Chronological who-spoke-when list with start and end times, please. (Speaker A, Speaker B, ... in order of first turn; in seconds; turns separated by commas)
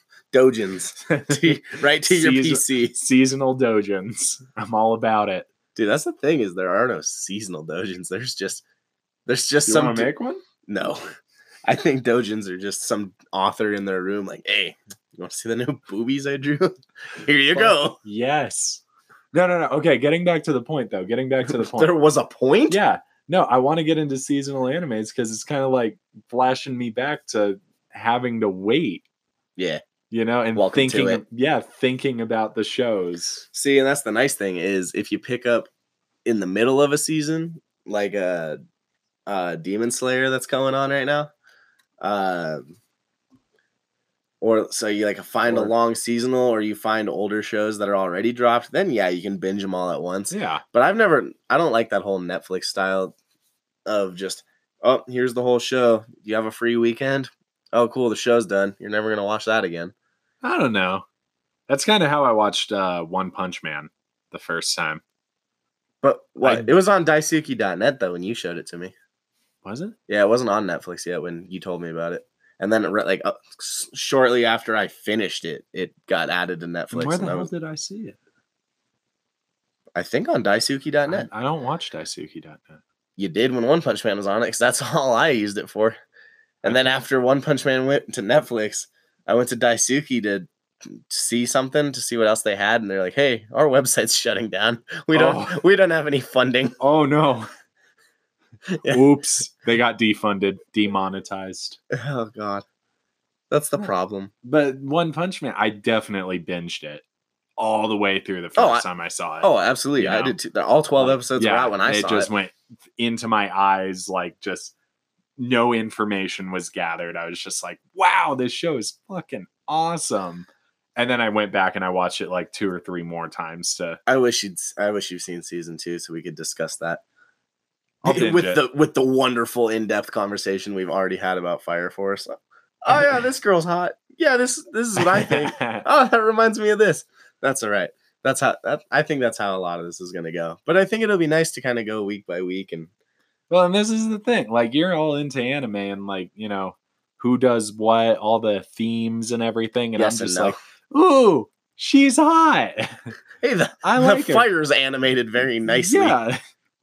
Speaker A: 0.3-3.0, Speaker B: 1.1-5.5, Speaker A: 5.8-8.6, Speaker A: 9.3-10.1, Speaker B: 9.7-10.4, Speaker A: 10.7-11.0, Speaker A: 11.7-18.0, Speaker B: 17.5-18.8, Speaker B: 19.3-21.9, Speaker A: 21.4-22.8, Speaker B: 22.7-29.0, Speaker B: 30.1-33.4, Speaker A: 30.5-31.2, Speaker A: 33.5-35.7, Speaker A: 36.2-38.6, Speaker A: 39.3-41.3, Speaker A: 42.0-42.8, Speaker A: 44.4-53.1, Speaker B: 45.4-45.7, Speaker B: 50.3-50.6, Speaker A: 53.9-59.9, Speaker B: 60.4-61.0, Speaker B: 61.7-65.0, Speaker A: 66.0-68.9, Speaker B: 66.4-66.7, Speaker B: 69.6-70.0, Speaker A: 70.1-77.5, Speaker B: 76.9-78.2, Speaker A: 80.0-81.3, Speaker B: 81.1-82.8, Speaker A: 83.2-86.0, Speaker A: 86.6-96.8, Speaker B: 86.6-87.0, Speaker B: 95.1-95.6, Speaker B: 96.8-97.5, Speaker A: 98.7-99.0, Speaker B: 98.9-101.8, Speaker A: 101.9-102.6, Speaker A: 103.5-104.3, Speaker B: 104.4-107.0, Speaker B: 107.6-110.3, Speaker A: 108.5-108.8, Speaker A: 109.4-112.3, Speaker B: 111.0-114.7, Speaker B: 115.4-124.0, Speaker A: 124.1-127.0, Speaker B: 128.0-128.6, Speaker A: 128.0-142.9, Speaker B: 135.0-135.8, Speaker B: 143.5-153.1, Speaker A: 149.9-150.6, Speaker A: 153.4-156.2, Speaker B: 153.8-154.4, Speaker B: 155.7-156.4